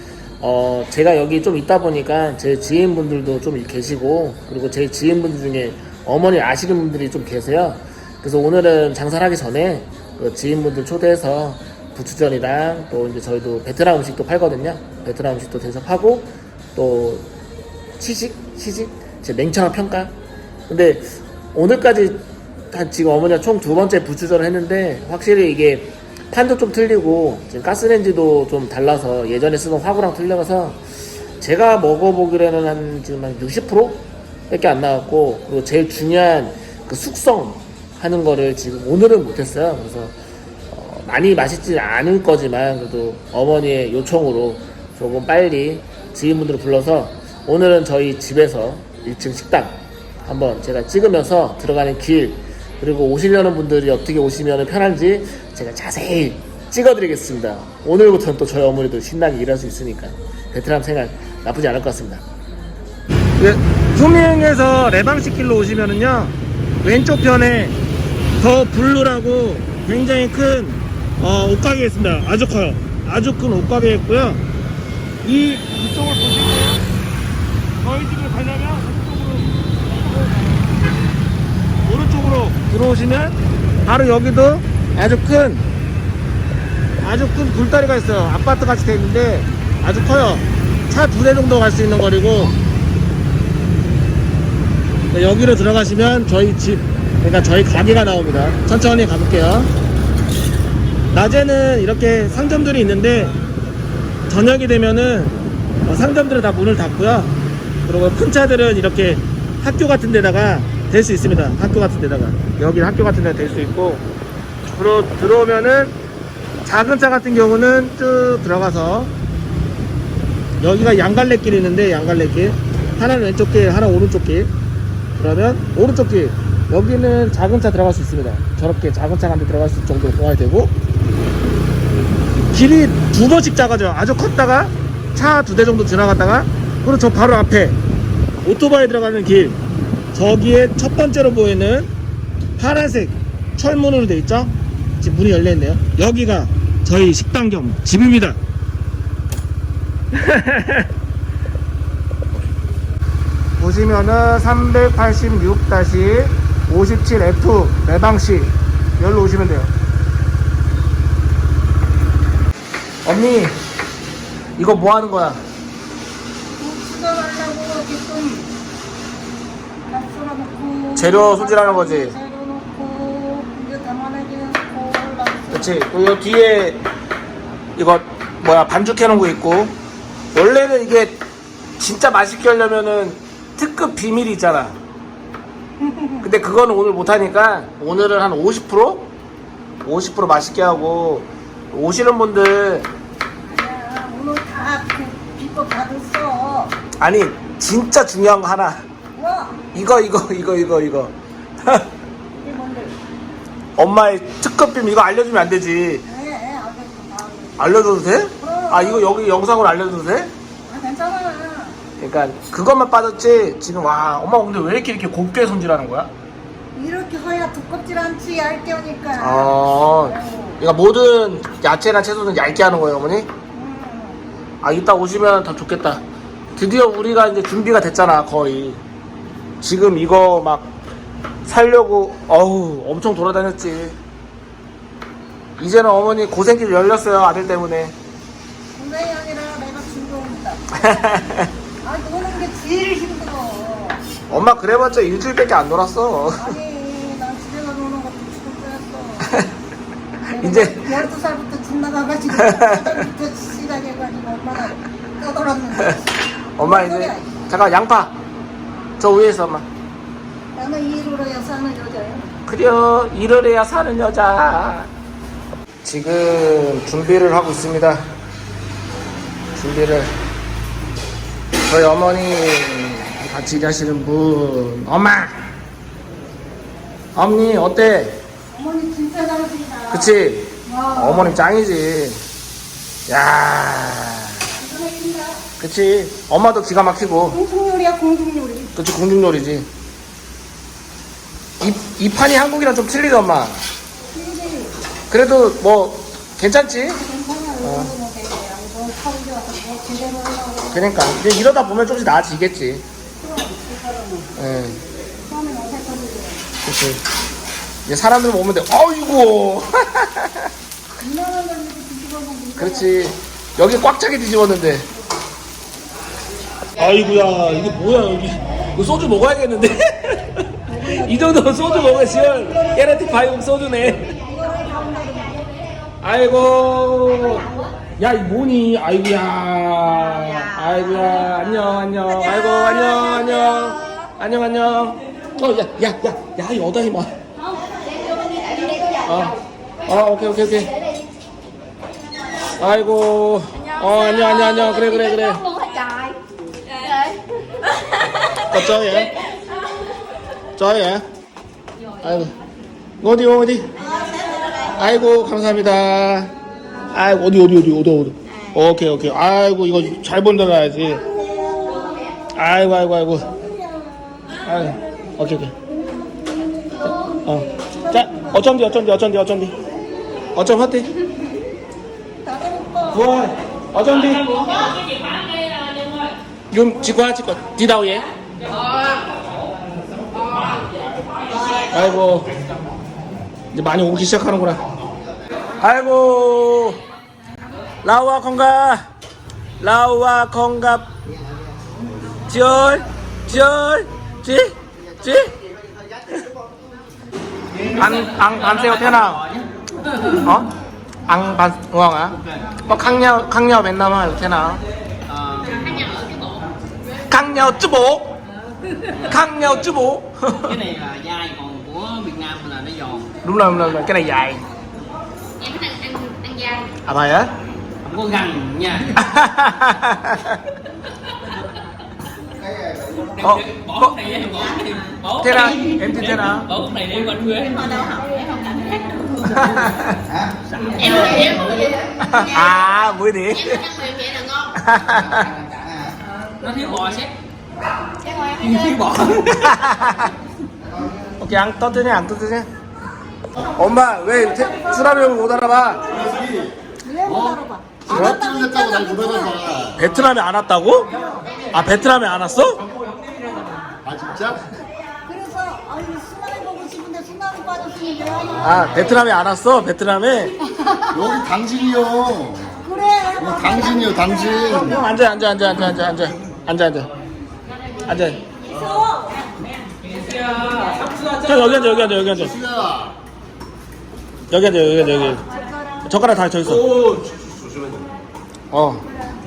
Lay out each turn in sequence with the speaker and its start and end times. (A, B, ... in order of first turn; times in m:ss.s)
0:00.4-0:17.2 A
0:18.0-0:20.1 A
0:20.7-0:30.8 A
0:31.4-0:40.1 A
0:40.7-1:02.2 A
1:03.4-1:07.8 A
1:08.4-1:14.4 A
1:15.2-1:16.8 A
1:17.8-1:20.7 A
1:21.8-1:25.7 A
1:27.0-1:32.6 A
1:35.1-1:39.7 A
1:41.1-1:43.3 A
1:44.3-1:47.3 A
1:47.8-1:54.0 A
1:54.7-1:56.0 A
1:56.6-1:59.1 A
2:00.6-2:04.5 A
2:05.2-2:10.7 A
2:12.5-2:17.8 A
2:18.4-2:19.6 A
2:20.1-2:21.9 A
2:22.6-2:28.4 A
2:30.1-2:30.9 A
2:33.6-2:39.7 A
2:43.0-2:43.6 A
2:44.6-2:45.4 A
2:46.6-2:48.5 B
2:49.9-2:55.8 B
2:51.0-2:52.1 A
2:55.5-2:56.8 A
2:57.8-2:59.8 A
3:00.3-3:01.2 A
3:01.8-3:04.8 A
3:05.8-3:06.2 B
3:06.2-3:09.1 A
3:09.8-3:12.9 A
3:13.4-3:16.8 B
3:17.0-3:18.8 A
3:19.2-3:19.6 B
3:19.7-3:21.9 A
3:22.4-3:23.0 B
3:23.8-3:26.0 A
3:26.0-3:27.7 B
3:27.6-3:30.3 A
3:28.4-3:29.1 B
3:30.7-3:31.8 B
3:32.0-3:36.1 A
3:36.7-3:40.6 B
3:39.2-3:43.3 A
3:43.5-3:44.2 B
3:44.6-3:46.0 A
3:46.6-3:48.8 A
3:49.6-3:50.7 A
3:51.4-3:54.0 A
3:55.6-3:57.9 A
3:58.7-4:00.8 B
4:00.7-4:01.5 A
4:01.8-4:04.0 B
4:04.3-4:06.6 A
4:06.4-4:09.3 B
4:10.2-4:16.1 B
4:10.4-4:11.0 A
4:12.4-4:12.9 A
4:16.6-4:18.1 A
4:16.6-4:17.3 B
4:19.0-4:19.6 A
4:20.5-4:22.3 B
4:22.4-4:24.9 A
4:25.8-4:28.0 A
4:29.5-4:30.1 A
4:31.6-4:35.5 A
4:37.1-4:38.2 A
4:38.5-4:40.1 B
4:39.9-4:42.2 A
4:40.6-4:41.4 B
4:43.1-4:44.4 A
4:44.6-4:45.5 B
4:45.6-4:47.4 A
4:47.3-4:48.7 B
4:48.8-4:49.7 A
4:51.6-4:53.6 A
4:54.1-4:54.8 B
4:55.1-4:57.0 A
4:56.9-5:00.9 B
4:57.6-4:57.9 A
5:00.7-5:02.8 A
5:03.2-5:04.3 B
5:04.4-5:04.8 A
5:05.2-5:06.5 B
5:06.6-5:07.0 A
5:07.8-5:10.5 A
5:11.0-5:12.9 B
5:12.6-5:14.9 A
5:16.8-5:24.2 A
5:20.7-5:23.1 B
5:24.2-5:25.4 B
5:26.0-5:27.5 A
5:28.0-5:37.1 A
5:39.0-5:39.3 A
5:39.8-5:40.7 A
5:42.6-5:45.8 A
5:48.3-5:49.1 A
5:50.6-5:51.0 A
5:52.0-5:52.3 A
5:53.0-5:53.7 A
5:54.0-5:54.4 B
5:54.7-5:56.3 A
5:56.9-6:01.0 A
6:02.3-6:03.3 A
6:03.4-6:04.4 B
6:04.4-6:05.5 A
6:06.8-6:09.5 A
6:10.3-6:10.9 A
6:12.2-6:13.1 B
6:12.9-6:14.8 A
6:16.5-6:18.1 A
6:21.7-6:22.3 A
6:23.5-6:24.6 A
6:25.6-6:26.8 A
6:27.8-6:28.8 A
6:29.6-6:30.9 A
6:32.3-6:35.3 A
6:37.7-6:39.2 A
6:38.5-6:39.4 C
6:40.2-6:40.5 A
6:41.1-6:44.6 A
6:45.1-6:46.4 C
6:47.1-6:48.2 A
6:48.9-6:50.6 A
6:50.4-6:53.1 C
6:53.2-6:54.4 A
6:55.4-6:56.6 D
6:56.8-6:57.3 A
6:57.8-6:59.0 C
6:59.0-7:00.4 A
7:03.2-7:04.1 A
7:03.3-7:05.1 C
7:05.1-7:06.6 A
7:06.6-7:09.5 C
7:09.2-7:10.0 A
7:10.6-7:11.7 C
7:10.8-7:11.3 A
7:11.2-7:11.6 D
7:12.0-7:13.7 A
7:13.7-7:14.4 D
7:14.5-7:15.3 A
7:16.4-7:17.1 C
7:18.2-7:19.6 C
7:19.4-7:20.1 A
7:21.2-7:22.5 A
7:23.6-7:26.1 A
7:26.8-7:29.6 B
7:27.9-7:28.2 A
7:28.0-7:29.8 E
7:29.7-7:30.9 A
7:31.5-7:32.6 A
7:33.8-7:34.5 E
7:35.0-7:38.8 B
7:38.4-7:40.4 A
7:40.7-7:41.0 B
7:40.9-7:42.5 E
7:42.6-7:45.1 B
7:43.3-7:44.7 E
7:44.4-7:46.9 A
7:47.8-7:48.2 A
7:48.5-7:49.2 B
7:50.3-7:50.8 C
7:51.0-7:52.4 A
7:52.4-7:52.9 E
7:54.3-7:55.2 A
7:55.3-7:55.8 B
7:55.8-7:56.8 A
7:58.5-7:58.8 A